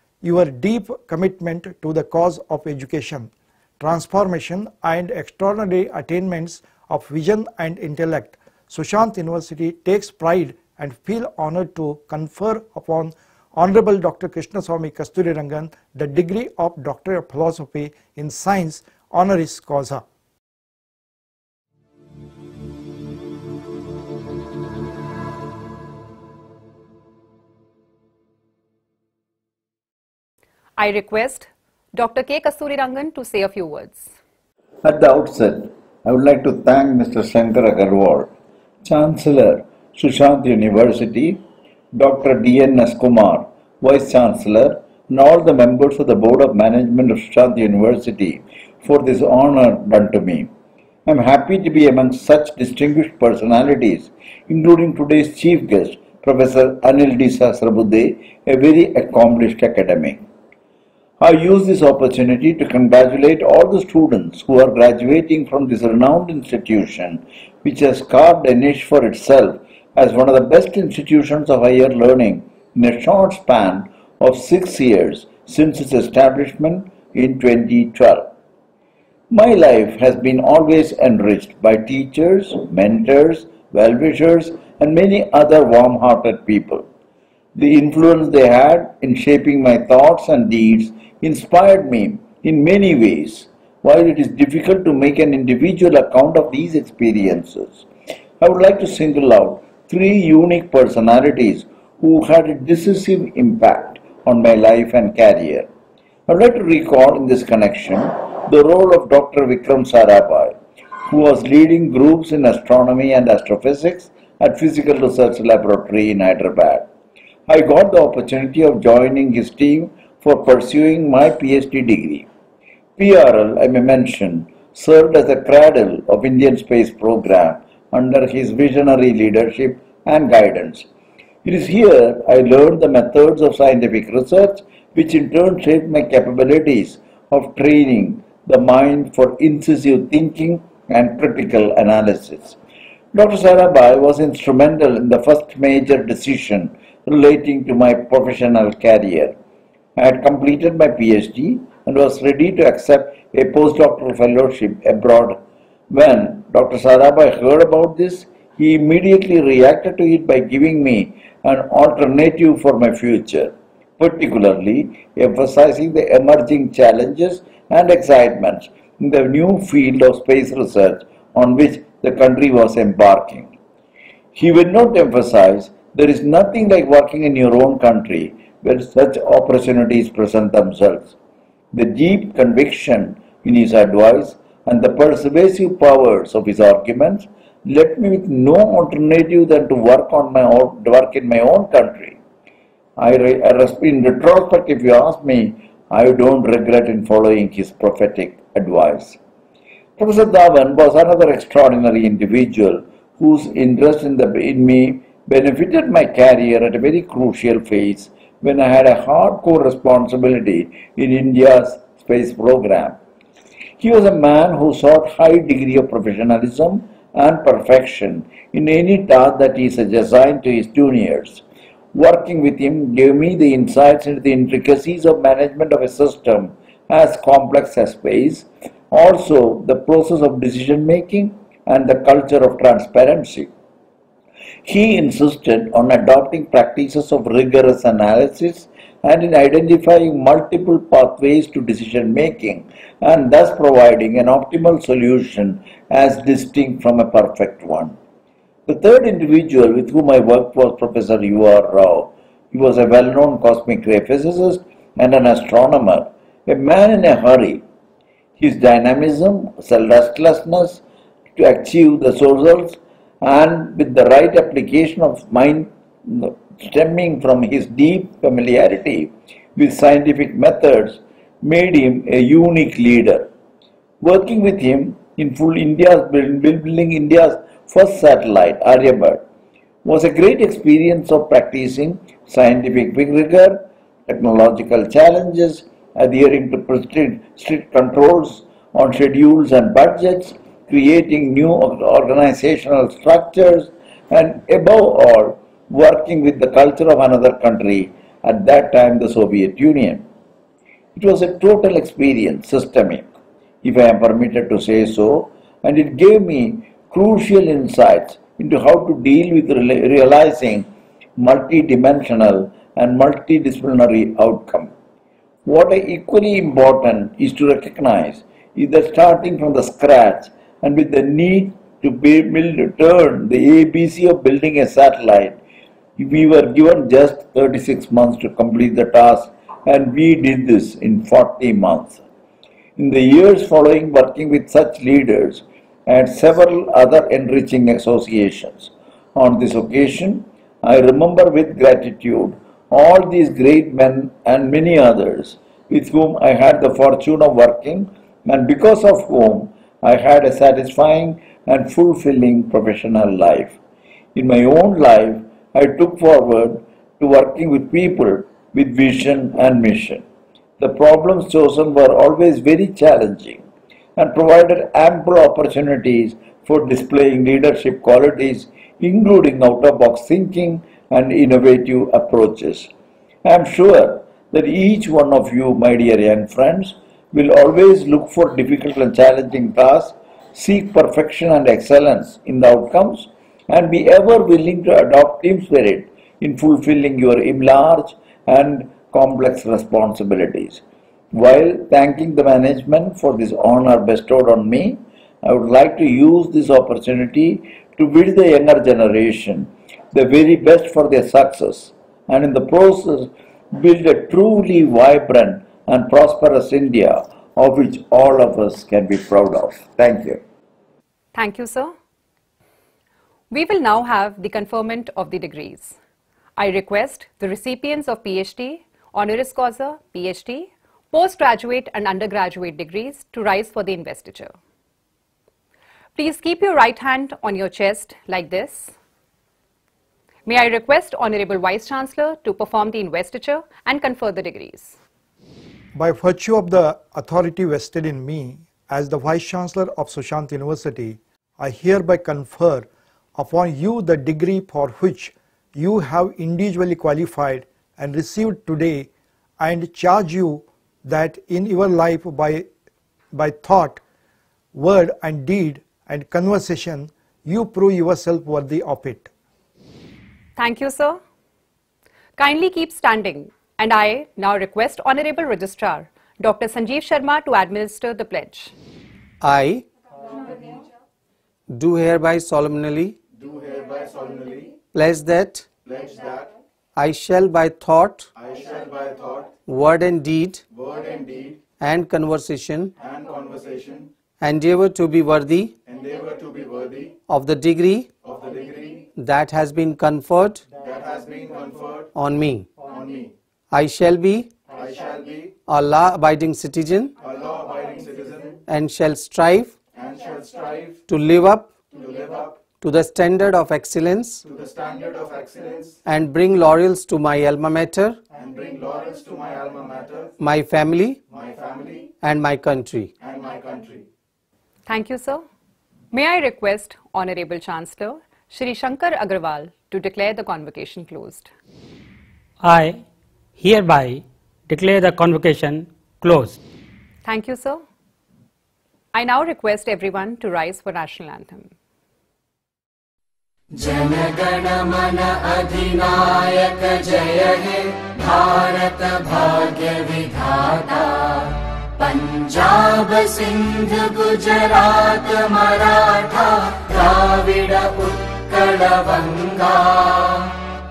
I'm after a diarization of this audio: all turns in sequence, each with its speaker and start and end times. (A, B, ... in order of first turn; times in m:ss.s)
0:00.2-0:20.0 A
0:30.8-0:34.1 B
0:34.8-0:38.3 C
0:38.8-0:41.4 C
0:41.9-0:50.5 C
0:51.0-1:00.2 C
1:01.2-1:18.3 C
1:19.3-1:26.8 C
1:27.5-1:37.9 C
1:38.4-1:45.7 C
1:46.3-1:50.6 C
1:51.1-1:56.9 C
1:57.5-2:02.3 C
2:03.0-2:10.9 C
2:11.4-2:22.6 C
2:23.1-2:29.3 C
2:30.0-2:35.4 C
2:35.9-2:53.5 C
2:54.3-3:01.1 C
3:01.7-3:12.2 C
3:13.0-3:19.2 C
3:20.0-3:33.0 C
3:33.8-3:41.4 C
3:41.9-3:53.5 C
3:54.6-4:08.0 C
4:08.7-4:17.6 C
4:18.4-4:20.8 C
4:21.4-4:33.3 C
4:34.0-4:39.2 C
4:39.8-5:00.0 C
5:00.9-5:03.0 C
5:03.6-5:14.7 C
5:15.4-5:25.4 C
5:26.0-5:32.0 C
5:32.8-5:53.6 C
5:54.1-6:00.0 C
6:00.6-6:03.4 C
6:04.0-6:12.7 C
6:13.2-6:30.6 C
6:31.1-6:50.2 C
6:51.1-6:51.7 B
6:53.3-6:55.8 B
6:56.4-7:04.3 B
7:06.0-7:08.7 B
7:10.2-7:14.8 B
7:15.7-7:32.5 A
7:33.1-7:33.8 A
7:34.5-7:39.1 A
7:40.4-7:41.0 B
7:42.2-7:48.5 B
7:49.2-7:49.6 D
7:50.0-7:50.6 E
7:51.5-7:53.0 D
7:53.1-7:54.6 E
7:54.7-7:55.5 D
7:55.6-7:56.3 E
7:56.8-7:58.1 D
7:58.2-7:59.3 E
7:59.4-8:00.4 D
8:00.5-8:01.4 E
8:01.6-8:02.7 D
8:02.8-8:03.9 E
8:04.2-8:05.5 D
8:05.6-8:06.9 E
8:07.1-8:07.9 D
8:08.0-8:08.9 E
8:09.0-8:10.4 D
8:10.5-8:11.9 E
8:11.9-8:12.5 D
8:12.6-8:13.1 E
8:13.5-8:14.3 D
8:14.4-8:15.3 E
8:15.5-8:16.9 D
8:17.0-8:18.4 E
8:18.5-8:19.5 D
8:19.7-8:20.8 E
8:20.9-8:21.5 D
8:21.7-8:22.4 E
8:22.6-8:24.2 D
8:24.2-8:25.8 E
8:25.8-8:28.0 D
8:28.1-8:30.1 E
8:30.2-8:31.0 D
8:31.1-8:31.9 E
8:32.0-8:32.9 D
8:33.0-8:33.8 E
8:34.6-8:35.2 B
8:35.9-8:41.3 B
8:42.4-8:42.8 F
8:43.4-8:46.4 F
8:47.0-8:47.6 B
8:48.9-8:51.5 B
8:53.6-9:10.3 G